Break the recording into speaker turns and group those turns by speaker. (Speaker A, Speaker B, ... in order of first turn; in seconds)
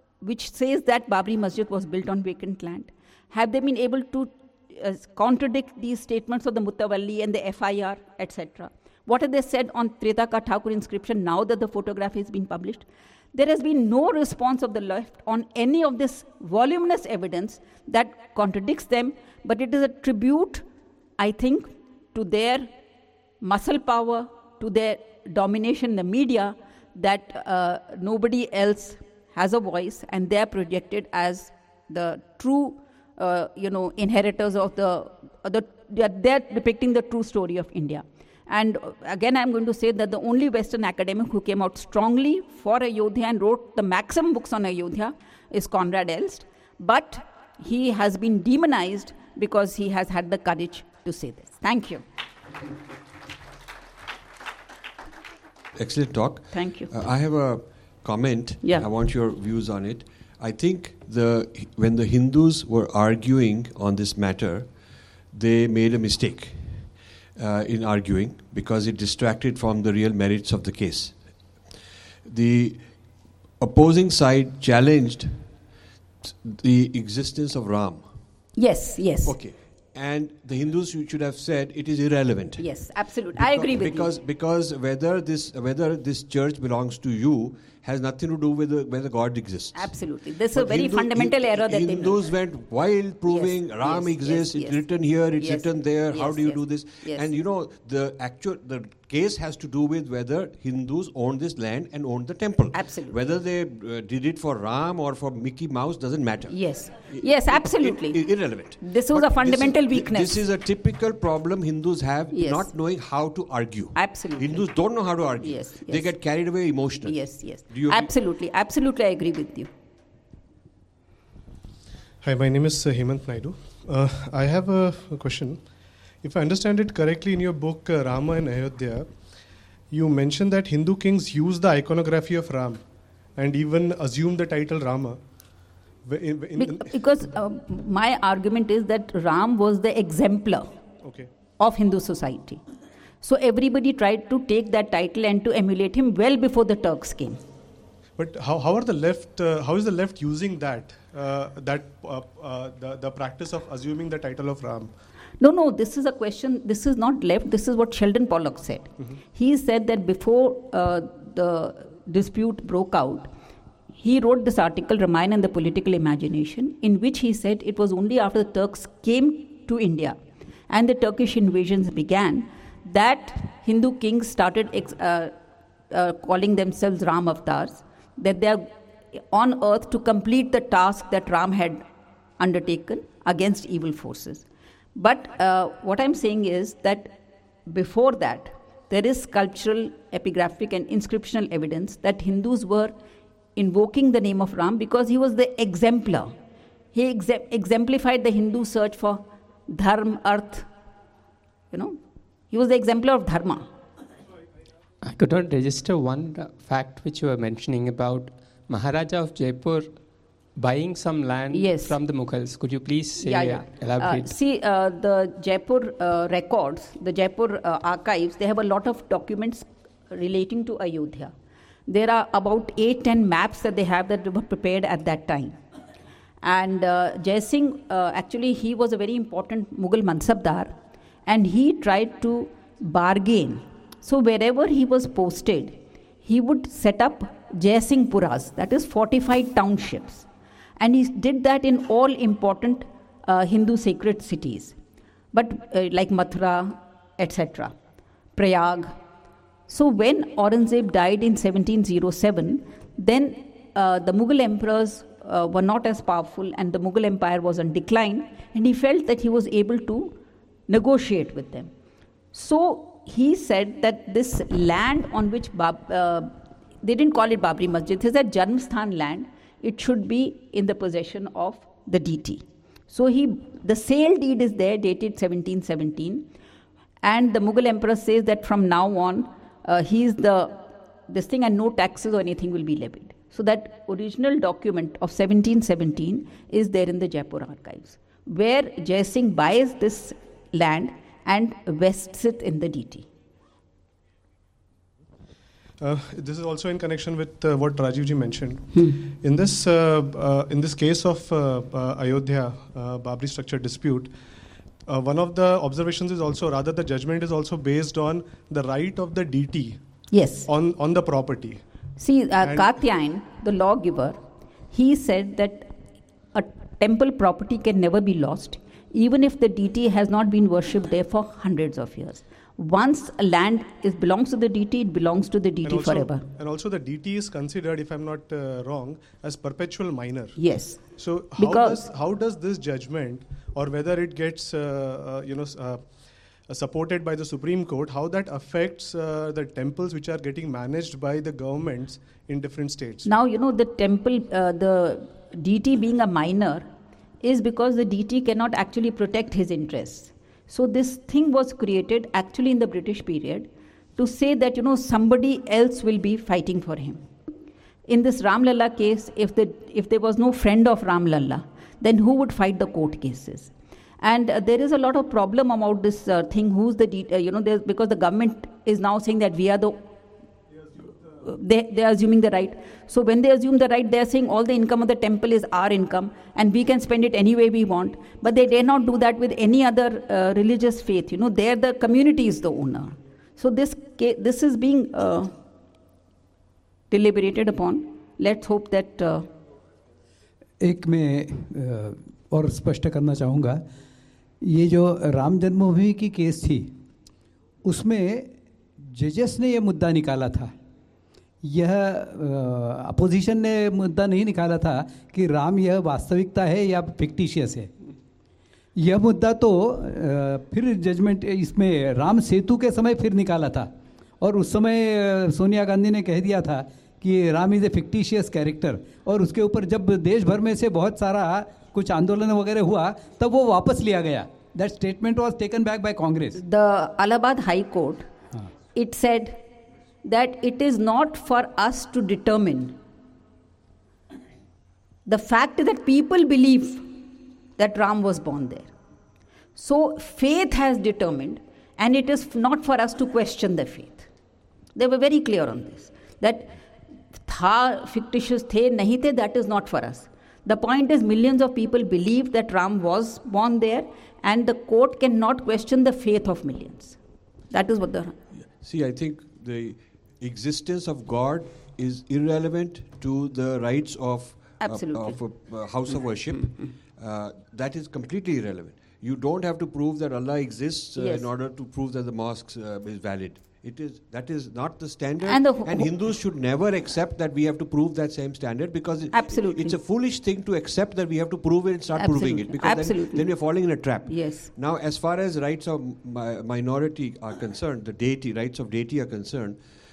Speaker A: 0.2-20.6, 21.2-22.7, 23.4-52.0, 56.5-56.9, 78.6-79.3, 82.6-84.1, 89.7-92.2, 93.3-94.8, 95.3-97.3, 102.7-103.2, 106.5-110.4, 112.3-112.7, 113.9-114.7, 115.4-116.1, 117.0-119.7, 136.6-140.7, 141.6-142.6, 143.2-147.4, 155.4-163.3, 164.0-175.3, 175.9-181.8, 182.4-192.9, 193.6-196.3, 196.9-200.7, 201.7-202.0, 202.5-203.7, 211.5-211.9, 213.2-221.3, 221.9-225.6, 226.4-230.7, 231.2-240.3, 240.8-244.8, 245.3-247.7, 248.3-248.9, 249.7-260.2, 260.7-261.7, 262.3-276.3, 277.0-293.1, 310.1-310.5, 312.0-314.2, 314.7-315.7, 316.3-326.2, 330.4-330.8, 331.4-331.8, 343.0-346.7, 347.2-357.0, 357.9-369.9, 371.2-385.3, 386.9-389.3, 426.4-428.1, 428.7-429.4, 430.0-432.8, 435.1-437.0, 437.6-438.7, 439.6-444.1, 444.8-446.5, 447.2-457.0, 457.5-458.1, 464.6-465.2, 471.0-471.3, 475.2-475.9, 479.1-479.8, 481.9-484.5
Speaker B: 55.7-64.7, 65.3-71.3, 72.2-72.9, 73.6-75.5, 76.2-78.0, 79.2-82.7, 83.3-89.9, 90.5-118.1, 458.6-489.6
Speaker C: 122.2-125.6, 126.2-129.1, 129.9-132.8, 133.3-135.2, 136.0-136.9, 141.0-141.3, 148.2-154.9, 295.8-304.1, 304.9-309.8, 310.4-311.6, 325.6-330.4, 330.9-335.9, 336.5-343.1
Speaker D: 205.0-210.0, 210.5-214.4
Speaker E: 390.6-393.6, 394.4-396.7, 397.6-400.5, 401.4-407.7, 408.8-426.4